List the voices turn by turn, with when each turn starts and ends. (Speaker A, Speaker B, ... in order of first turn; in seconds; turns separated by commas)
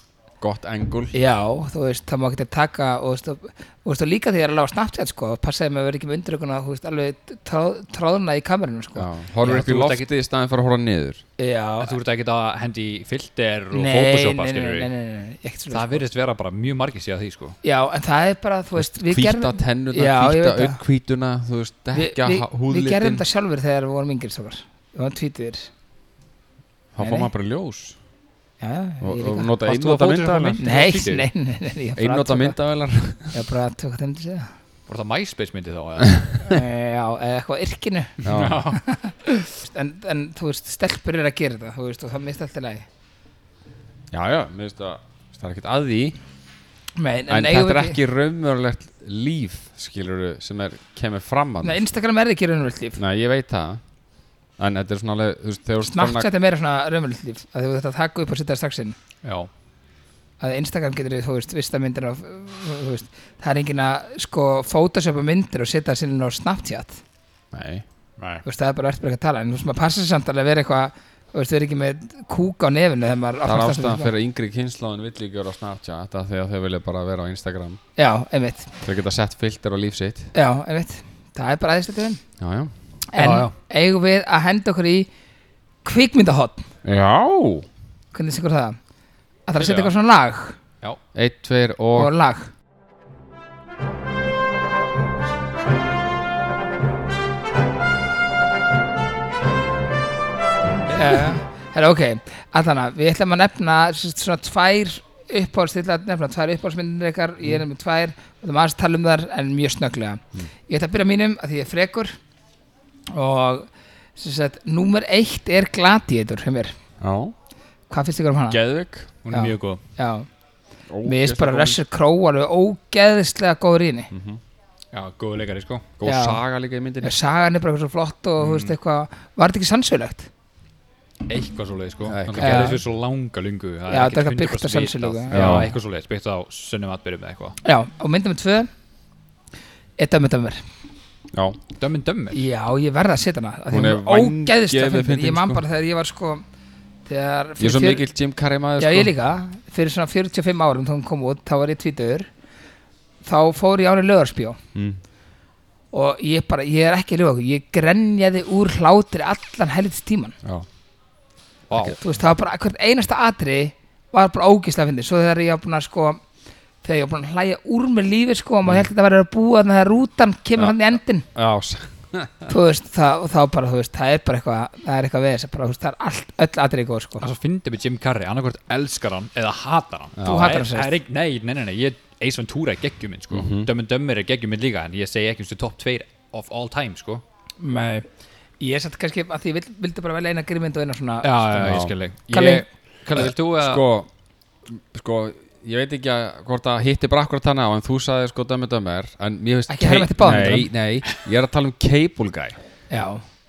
Speaker A: 0.4-1.1, Speaker B: 1.1-9.1, Speaker A: 8.9-11.2, Speaker C: 9.4-10.1, Speaker B: 11.4-11.9, Speaker C: 11.8-14.9, Speaker B: 13.7-16.0, Speaker C: 15.7-17.6, Speaker B: 17.6-20.8, Speaker A: 18.8-23.2, Speaker B: 21.9-25.7, Speaker A: 26.9-28.0, Speaker B: 27.0-27.3, Speaker B: 28.6-29.5, Speaker A: 29.0-30.6, Speaker C: 29.6-31.3, Speaker B: 30.6-32.6, Speaker A: 32.0-33.4, Speaker B: 33.3-34.5, Speaker C: 34.9-36.4, Speaker B: 36.4-38.2, Speaker A: 38.2-38.7, Speaker C: 38.2-38.8, Speaker B: 38.8-42.9, Speaker A: 44.1-46.1, Speaker B: 47.0-48.0, Speaker A: 47.3-51.8, Speaker B: 51.6-53.0, Speaker A: 53.0-53.8, Speaker A: 54.6-56.3, Speaker B: 55.8-59.0, Speaker C: 59.2-59.5, Speaker B: 60.4-67.0, Speaker A: 67.5-67.8, Speaker C: 68.2-68.4, Speaker B: 68.4-74.1, Speaker A: 73.4-77.8, Speaker B: 78.0-78.8, Speaker A: 78.8-80.3, Speaker B: 80.3-82.2, Speaker A: 82.4-82.7, Speaker B: 83.1-85.1, Speaker C: 83.2-83.5, Speaker B: 85.8-86.7, Speaker A: 86.8-87.7, Speaker B: 88.1-88.8, Speaker B: 89.5-90.6, Speaker C: 89.6-89.9, Speaker A: 91.1-92.1, Speaker B: 91.9-92.5, Speaker B: 100.9-112.2, Speaker B: 113.1-116.8, Speaker A: 117.0-117.3, Speaker B: 117.9-118.6, Speaker A: 118.5-119.1, Speaker C: 119.2-119.8, Speaker B: 119.3-120.3, Speaker A: 120.9-121.8, Speaker B: 121.0-124.1, Speaker A: 124.1-124.4, Speaker C: 124.9-125.9, Speaker A: 126.0-127.1, Speaker B: 126.0-126.4, Speaker B: 127.0-130.3, Speaker C: 128.4-128.7, Speaker C: 131.3-137.6, Speaker A: 132.0-132.8, Speaker B: 132.4-132.8, Speaker B: 133.9-135.6, Speaker A: 135.3-135.8, Speaker B: 137.6-138.7, Speaker B: 140.0-140.6, Speaker A: 141.3-141.6, Speaker C: 141.8-142.4, Speaker B: 142.3-146.4, Speaker A: 143.7-145.6, Speaker B: 147.1-148.0, Speaker A: 147.6-149.1, Speaker B: 148.8-152.3, Speaker B: 153.2-154.6, Speaker A: 154.7-155.0, Speaker B: 155.9-160.4, Speaker C: 161.7-162.0, Speaker B: 161.8-166.2, Speaker B: 166.8-171.3, Speaker A: 170.6-172.5, Speaker B: 172.5-177.2, Speaker C: 177.2-187.2, Speaker A: 180.2-180.5, Speaker B: 180.2-180.9, Speaker A: 183.3-183.7, Speaker B: 187.6-188.1, Speaker B: 188.6-192.6, Speaker C: 191.2-193.8, Speaker A: 191.6-191.9, Speaker A: 193.1-194.1, Speaker A: 194.7-202.6, Speaker B: 199.7-200.7, Speaker C: 200.2-200.6, Speaker B: 202.9-203.2